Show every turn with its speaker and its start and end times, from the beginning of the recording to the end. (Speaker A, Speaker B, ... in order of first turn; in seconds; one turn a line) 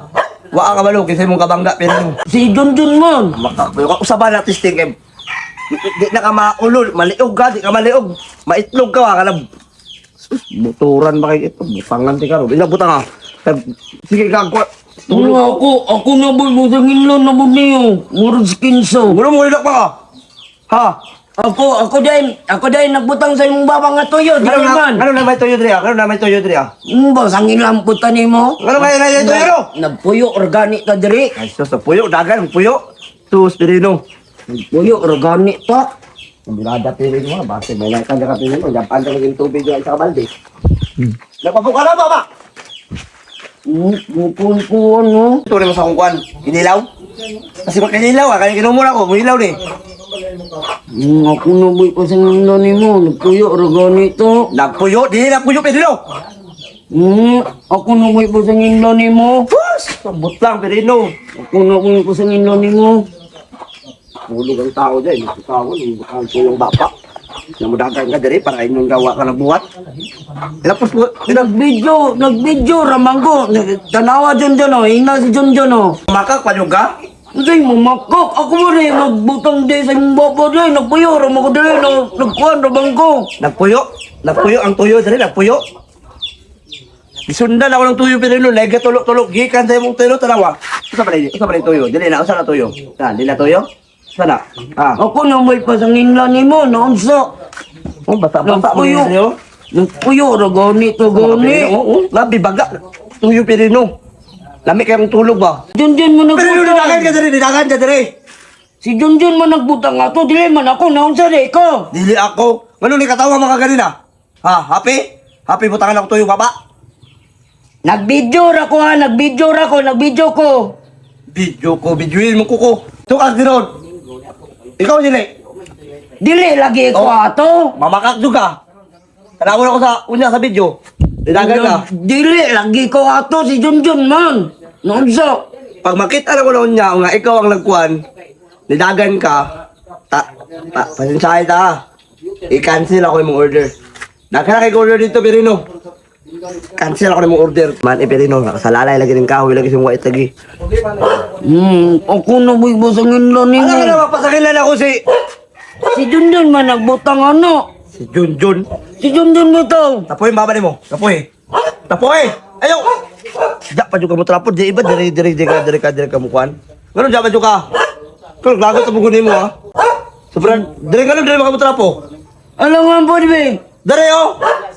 Speaker A: 0.5-2.1
Speaker B: 2.3-3.3
Speaker A: 3.4-4.9
Speaker A: 5.7-9.4
Speaker A: 10.2-15.5
Speaker B: 15.1-19.1
Speaker A: 19.1-19.9
Speaker A: 20.7-20.9
Speaker B: 21.4-25.0
Speaker A: 24.4-26.7
Speaker B: 26.9-31.3
Speaker A: 28.6-29.7
Speaker A: 31.4-32.8
Speaker A: 33.3-34.0
Speaker B: 34.5-35.9
Speaker A: 36.5-40.3
Speaker A: 41.4-42.2
Speaker B: 43.7-45.4
Speaker A: 45.5-46.9
Speaker A: 47.6-49.6
Speaker B: 51.0-54.5
Speaker A: 54.5-56.0
Speaker B: 56.9-59.5
Speaker A: 59.5-61.1
Speaker B: 61.4-63.0
Speaker A: 64.3-66.9
Speaker A: 67.6-69.6
Speaker A: 70.6-71.5
Speaker B: 71.3-76.0
Speaker A: 76.1-76.9
Speaker B: 77.3-83.3
Speaker A: 83.4-85.6
Speaker A: 87.3-95.0
Speaker B: 95.0-97.3
Speaker A: 98.1-99.3
Speaker B: 98.4-99.1
Speaker B: 99.7-101.7
Speaker A: 101.1-102.7
Speaker A: 103.2-103.9
Speaker A: 104.7-105.6
Speaker B: 105.8-107.2
Speaker A: 106.3-108.1
Speaker B: 108.8-111.9
Speaker A: 111.9-113.9
Speaker A: 114.4-116.5
Speaker B: 117.8-120.7
Speaker A: 121.3-123.7
Speaker A: 124.8-125.3
Speaker B: 126.2-127.7
Speaker A: 127.8-128.5
Speaker A: 129.4-130.7
Speaker A: 131.2-131.8
Speaker B: 131.3-135.4
Speaker A: 135.8-138.0
Speaker A: 138.7-139.4
Speaker A: 140.1-141.8
Speaker A: 142.5-143.7
Speaker A: 144.3-145.6
Speaker A: 146.8-150.3
Speaker B: 151.3-154.0
Speaker A: 153.6-155.0
Speaker B: 155.9-157.6
Speaker A: 158.0-158.7
Speaker B: 159.0-160.1
Speaker A: 160.1-161.2
Speaker A: 161.9-162.8
Speaker A: 163.7-167.6
Speaker A: 168.4-169.5
Speaker A: 170.3-171.9
Speaker B: 172.6-173.6
Speaker A: 173.8-174.3